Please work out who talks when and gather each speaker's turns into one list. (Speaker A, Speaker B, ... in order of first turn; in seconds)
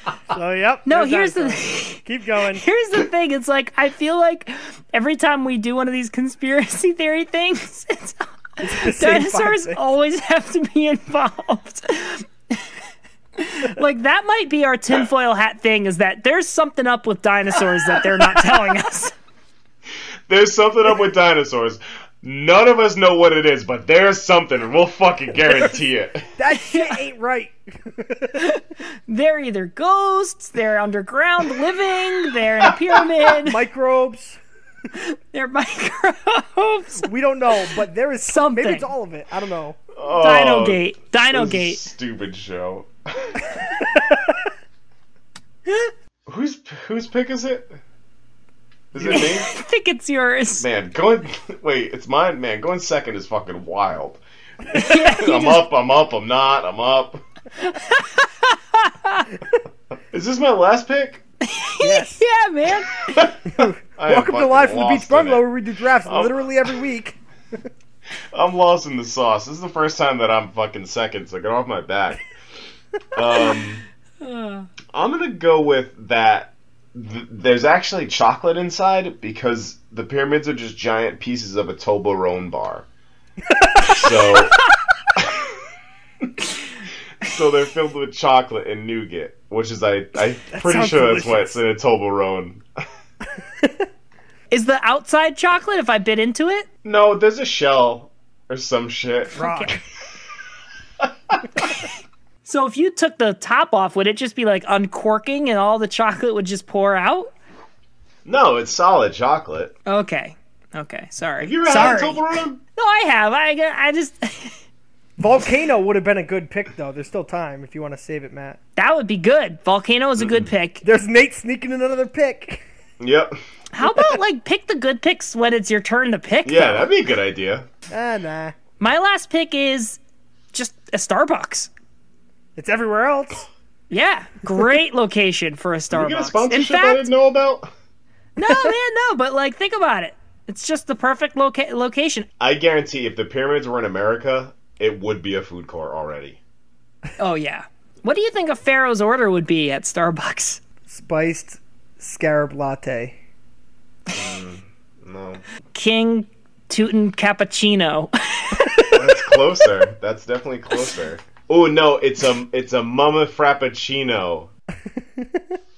Speaker A: 0.3-2.6, 8.6-9.8, 26.4-28.5, 33.4-34.4, 37.0-39.8, 43.8-44.4, 49.0-49.3, 61.8-62.2, 63.5-67.2, 83.5-84.3, 90.5-91.6, 99.4-99.8, 115.2-118.6, 120.8-122.6, 127.9-128.6, 132.6-133.5, 138.5-138.7, 150.9-153.2, 164.9-165.6
Speaker B: 0.9-12.6, 13.4-19.1, 26.5-27.0, 28.4-33.6, 34.9-37.1, 38.3-38.9, 40.1-41.8, 49.0-50.7, 54.7-55.6, 57.6-59.3, 61.4-63.3, 74.2-74.7, 94.5-96.7, 99.3-99.8, 102.4-107.3, 109.9-114.6, 118.8-120.8, 123.7-126.9, 128.8-130.0, 130.5-131.7, 133.9-137.1, 138.4-142.3, 147.2-150.6, 155.7-159.3
Speaker C: 20.3-26.3, 39.9-43.8, 46.3-47.8, 48.9-49.5, 50.6-57.2, 60.1-61.2, 63.1-65.4, 66.0-66.5, 68.3-72.3, 73.1-73.8, 74.9-82.8, 83.9-84.6, 87.2-92.6, 96.8-99.4, 101.0-101.4, 108.3-109.7, 111.4-112.6, 123.0-123.3, 126.5-127.7, 135.9-137.7, 142.4-146.4, 154.1-155.4, 158.9-164.5